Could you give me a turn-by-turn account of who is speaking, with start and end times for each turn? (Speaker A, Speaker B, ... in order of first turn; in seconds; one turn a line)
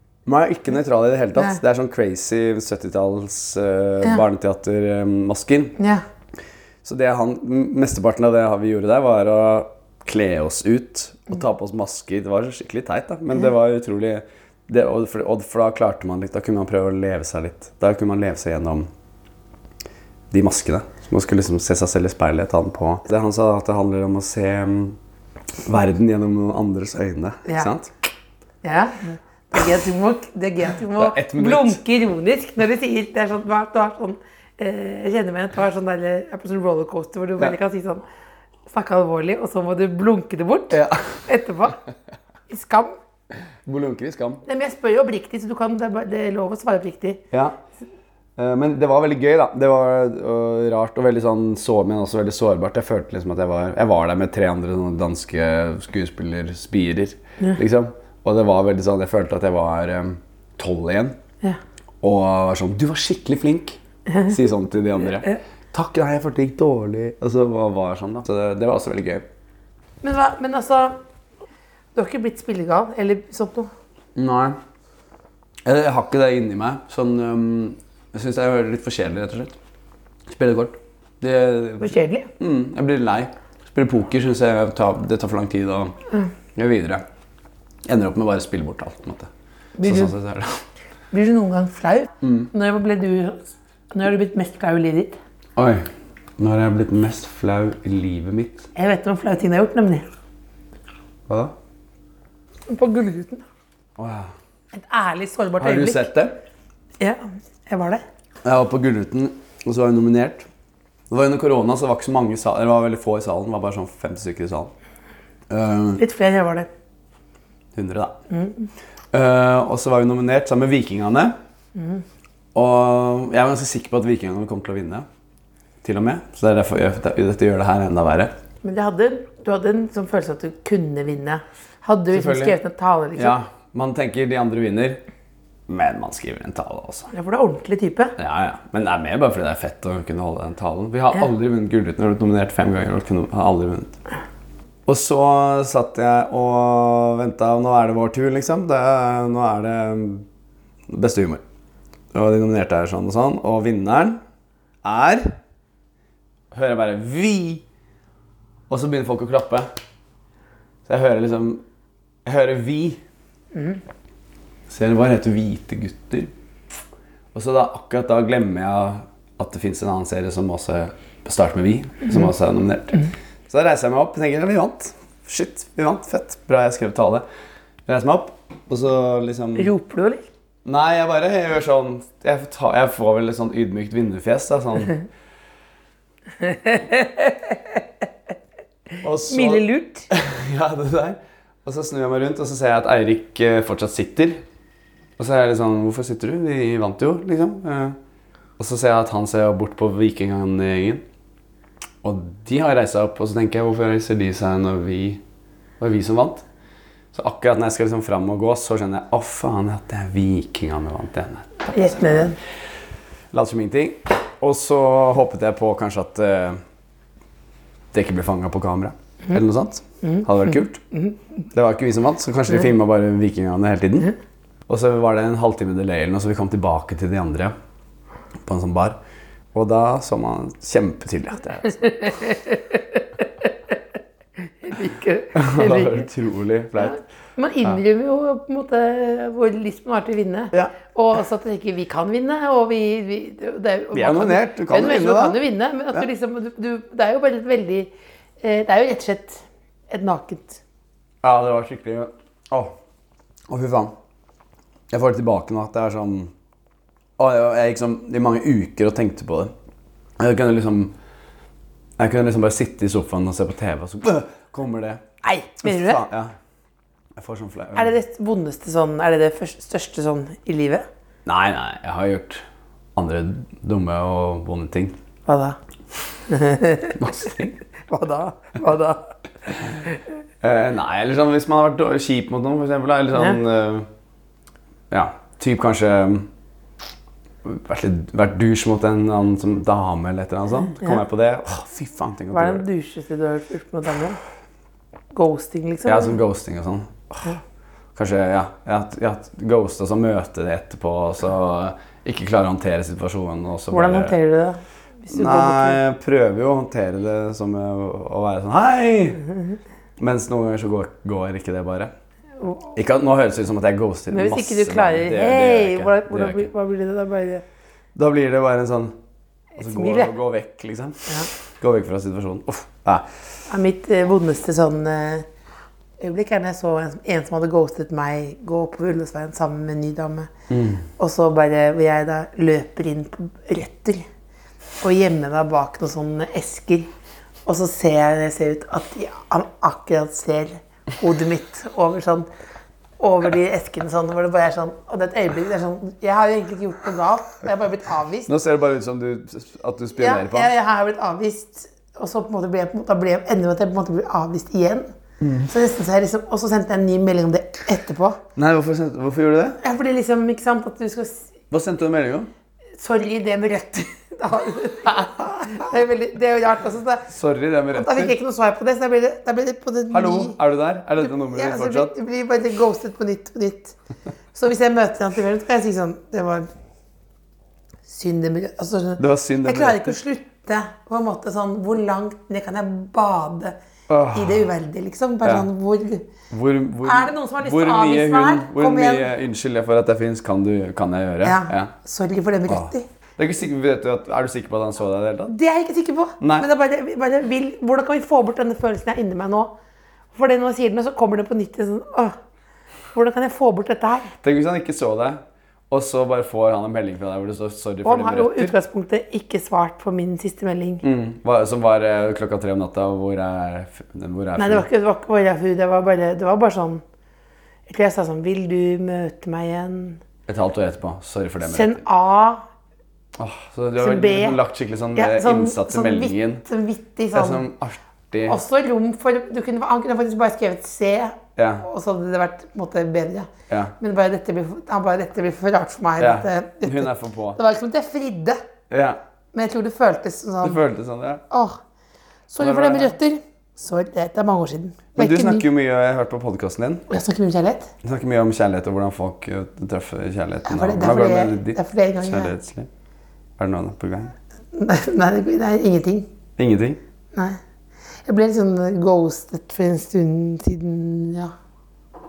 Speaker A: 0.2-5.8
Speaker B: 5.8-6.0
Speaker A: 6.8-18.9
Speaker A: 20.3-25.0
Speaker A: 25.6-27.9
Speaker B: 28.6-38.0
Speaker A: 30.9-31.8
Speaker B: 38.7-41.8
Speaker A: 40.7-41.3
Speaker B: 42.5-42.9
Speaker A: 43.6-44.4
Speaker B: 44.4-47.2
Speaker A: 47.3-47.6
Speaker A: 48.4-61.2
Speaker A: 62.0-69.2
Speaker B: 64.1-64.3
Speaker B: 70.0-71.0
Speaker B: 71.9-73.7
Speaker A: 74.2-74.6
Speaker A: 75.6-79.6
Speaker A: 80.3-86.0
Speaker B: 81.8-82.3
Speaker A: 86.5-87.0
Speaker A: 87.8-89.3
Speaker B: 89.8-90.1
Speaker A: 89.8-90.6
Speaker B: 91.1-95.2
Speaker A: 92.2-92.5
Speaker A: 95.5-98.7
Speaker B: 98.7-100.0
Speaker A: 101.3-101.5
Speaker B: 102.7-103.4
Speaker A: 104.0-104.3
Speaker B: 104.7-106.1
Speaker A: 105.6-106.4
Speaker B: 107.0-108.0
Speaker A: 108.4-110.5
Speaker A: 111.1-114.7
Speaker A: 115.5-116.0
Speaker B: 116.0-116.7
Speaker A: 117.7-118.2
Speaker B: 118.3-118.7
Speaker A: 119.1-121.3
Speaker B: 121.7-122.0
Speaker A: 122.5-125.0
Speaker A: 125.8-128.3
Speaker B: 128.6-133.4
Speaker A: 132.1-132.6
Speaker A: 133.2-135.0
Speaker A: 135.7-137.1
Speaker B: 137.1-138.1
Speaker A: 138.2-144.0
Speaker A: 144.8-150.3
Speaker A: 150.9-151.4
Speaker A: 152.1-154.2
Speaker A: 154.8-155.4
Speaker A: 156.5-157.6
Speaker A: 158.7-159.7
Speaker A: 160.8-161.6
Speaker A: 162.2-163.0
Speaker B: 163.5-163.8
Speaker A: 164.7-166.3
Speaker A: 167.3-177.2
Speaker A: 177.9-179.7
Speaker B: 179.6-180.2
Speaker A: 180.6-185.0
Speaker B: 186.4-187.6
Speaker A: 189.0-194.4
Speaker B: 189.3-190.1
Speaker A: 195.2-198.0
Speaker A: 198.6-201.0
Speaker A: 202.0-205.2
Speaker A: 205.8-206.5
Speaker A: 207.1-212.1
Speaker B: 211.7-212.4
Speaker A: 213.3-216.6
Speaker A: 217.9-220.8
Speaker A: 221.5-224.1
Speaker A: 224.7-227.5
Speaker A: 228.4-229.0
Speaker A: 229.5-232.1
Speaker B: 231.8-232.8
Speaker B: 234.6-236.1
Speaker A: 235.3-237.0
Speaker B: 236.8-250.6
Speaker A: 243.9-245.4
Speaker A: 251.2-252.7
Speaker A: 253.5-253.9
Speaker A: 254.9-256.3
Speaker A: 257.2-259.5
Speaker A: 260.2-260.9
Speaker A: 262.0-265.0
Speaker B: 265.2-266.0
Speaker A: 265.6-266.3
Speaker A: 267.1-267.9
Speaker B: 267.7-270.9
Speaker A: 271.2-275.0
Speaker B: 275.2-275.6
Speaker B: 276.3-277.0
Speaker A: 276.9-277.6
Speaker B: 277.9-279.1
Speaker A: 280.4-283.9
Speaker A: 284.9-286.3
Speaker A: 287.4-292.7
Speaker B: 292.3-294.2
Speaker B: 295.1-296.2
Speaker A: 295.8-297.3
Speaker A: 297.9-304.2
Speaker B: 303.7-305.8
Speaker A: 305.1-309.2
Speaker A: 310.0-311.9
Speaker B: 312.4-312.7
Speaker A: 312.7-316.5
Speaker B: 314.1-317.4
Speaker A: 317.9-319.0
Speaker B: 319.6-320.1
Speaker A: 319.6-323.1
Speaker B: 323.5-325.3
Speaker B: 326.0-330.3
Speaker A: 330.5-330.9
Speaker B: 331.0-334.1
Speaker B: 334.8-336.9
Speaker B: 337.4-342.3
Speaker B: 343.0-348.3
Speaker A: 348.3-350.5
Speaker B: 349.9-358.2
Speaker A: 355.2-355.5
Speaker A: 358.4-359.6
Speaker B: 359.6-361.3
Speaker A: 361.5-362.3
Speaker B: 362.8-367.1
Speaker A: 367.1-368.2
Speaker B: 367.7-370.4
Speaker A: 369.9-371.9
Speaker B: 371.0-373.8
Speaker B: 374.3-376.5
Speaker B: 377.9-383.6
Speaker A: 379.0-380.0
Speaker A: 383.9-384.5
Speaker B: 384.1-386.1
Speaker A: 385.2-385.5
Speaker A: 386.3-391.7
Speaker B: 386.8-389.1
Speaker B: 391.2-392.9
Speaker A: 392.5-395.3
Speaker B: 395.3-399.5
Speaker A: 396.2-396.5
Speaker B: 400.1-402.1
Speaker B: 402.9-404.1
Speaker A: 404.2-408.5
Speaker B: 407.8-410.9
Speaker A: 410.8-414.7
Speaker B: 414.4-416.8
Speaker B: 417.7-420.0
Speaker A: 420.3-421.8
Speaker B: 421.4-422.4
Speaker A: 423.1-426.4
Speaker B: 423.8-424.4
Speaker B: 424.9-427.5
Speaker A: 427.1-428.4
Speaker B: 428.2-438.4
Speaker A: 431.4-431.6
Speaker A: 433.5-433.7
Speaker A: 436.0-437.4
Speaker A: 438.7-439.0
Speaker B: 439.3-440.6
Speaker A: 440.4-441.2
Speaker B: 441.3-441.6
Speaker B: 442.3-445.4
Speaker A: 442.4-442.9
Speaker A: 444.9-446.9
Speaker B: 446.9-447.7
Speaker A: 447.8-452.7
Speaker B: 450.4-452.3
Speaker A: 453.4-454.1
Speaker B: 454.5-456.1
Speaker A: 456.4-456.8
Speaker B: 458.1-461.3